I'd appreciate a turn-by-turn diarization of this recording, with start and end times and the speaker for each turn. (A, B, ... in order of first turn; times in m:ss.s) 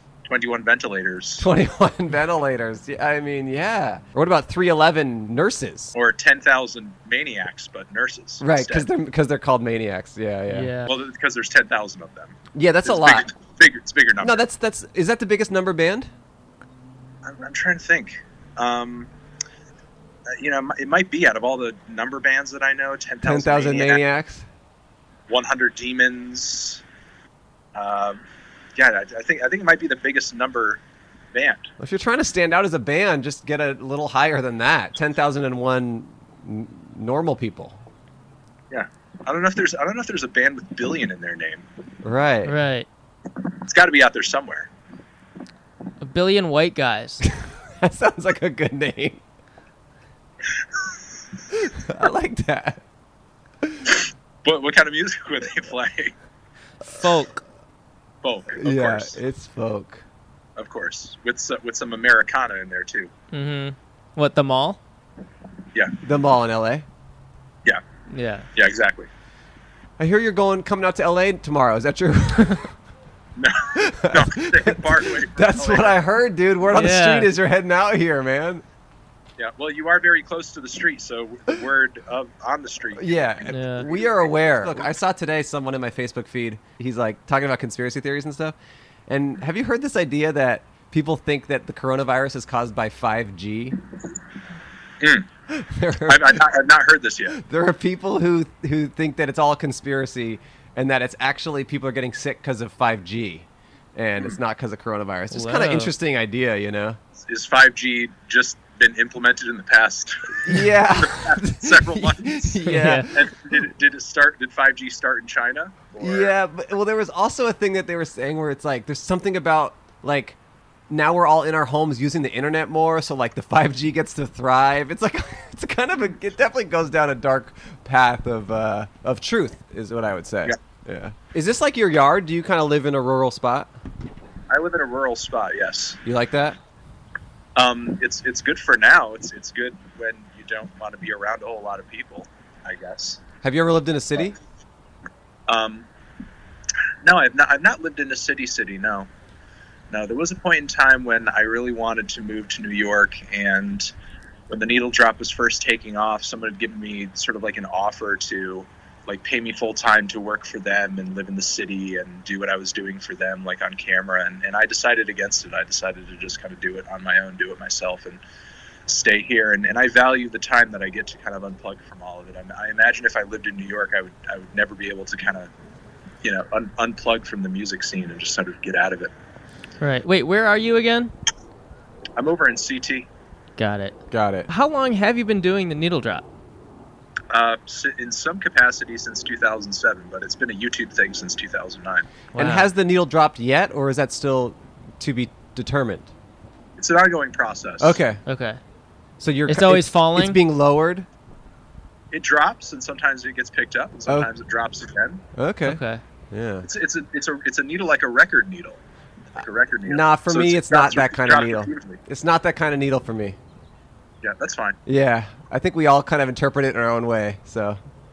0:00.3-0:01.5 A
0:01.4-0:06.0 B
0:05.9-0:08.9 A
0:08.4-0:10.7 B
0:10.5-0:10.9 C
0:10.9-0:14.4 A
0:12.5-0:13.3 B
0:14.2-0:16.1 B
0:17.2-0:19.1 A
0:20.3-0:24.0 A
0:23.2-0:24.5 B
0:25.3-0:26.8 A
0:27.8-0:28.2 A
0:28.8-0:30.8 A
0:31.3-0:31.7 A
0:31.8-0:37.8 B
0:38.7-0:41.7 A
0:42.0-0:42.5 B
0:42.5-0:42.9 C
0:43.6-0:44.7 A
0:46.0-0:47.2 C
0:47.8-0:49.2 B
0:51.5-0:52.8 B
0:53.6-0:53.9 B
0:54.4-0:56.1 A
0:56.9-0:57.4 C
0:58.2-0:59.2 A
0:58.6-1:00.0 B
1:00.6-1:03.1 A
1:03.3-1:04.8 C
1:06.0-1:06.9 B
1:08.1-1:08.5 C
1:08.6-1:09.1 A
1:10.0-1:12.8 B
1:13.4-1:16.0 A
1:13.8-1:18.6 B
1:16.7-1:17.3 C
1:19.4-1:24.9 A
1:23.0-1:28.6 B
1:23.5-1:23.9 C
1:29.1-1:33.8 B
1:35.0-1:35.3 A
1:35.5-1:36.4 B
1:36.1-1:37.4 A
1:37.3-1:47.0 B
1:45.3-1:45.9 C
1:47.2-1:56.3 A
1:50.4-1:53.3 B
1:52.6-1:53.1 C
1:56.0-2:00.4 B
2:00.9-2:13.7 B
2:14.5-2:16.0 A
2:16.0-2:16.6 B
2:17.6-2:23.2 A
2:23.4-2:24.4 B
2:25.5-2:25.9 A
2:27.0-2:29.1 A
2:29.9-2:33.9 A
2:34.5-2:48.2 A
2:48.9-2:55.5 A
2:56.2-2:59.1 A
2:59.8-3:01.1 C
3:02.2-3:03.1 A
3:03.6-3:06.2 C
3:04.1-3:04.5 B
3:07.3-3:12.1 A
3:12.3-3:12.7 C
3:12.3-3:16.1 B
3:16.8-3:18.0 A
3:17.8-3:18.2 B
3:18.3-3:18.6 C
3:19.2-3:21.1 B
3:19.5-3:20.4 C
3:22.1-3:25.2 A
3:25.4-3:25.8 B
3:25.7-3:26.0 C
3:26.3-3:26.7 B
3:26.6-3:28.8 A
3:29.4-3:32.0 A
3:29.4-3:33.4 B
3:34.2-3:34.8 A
3:34.9-3:37.8 B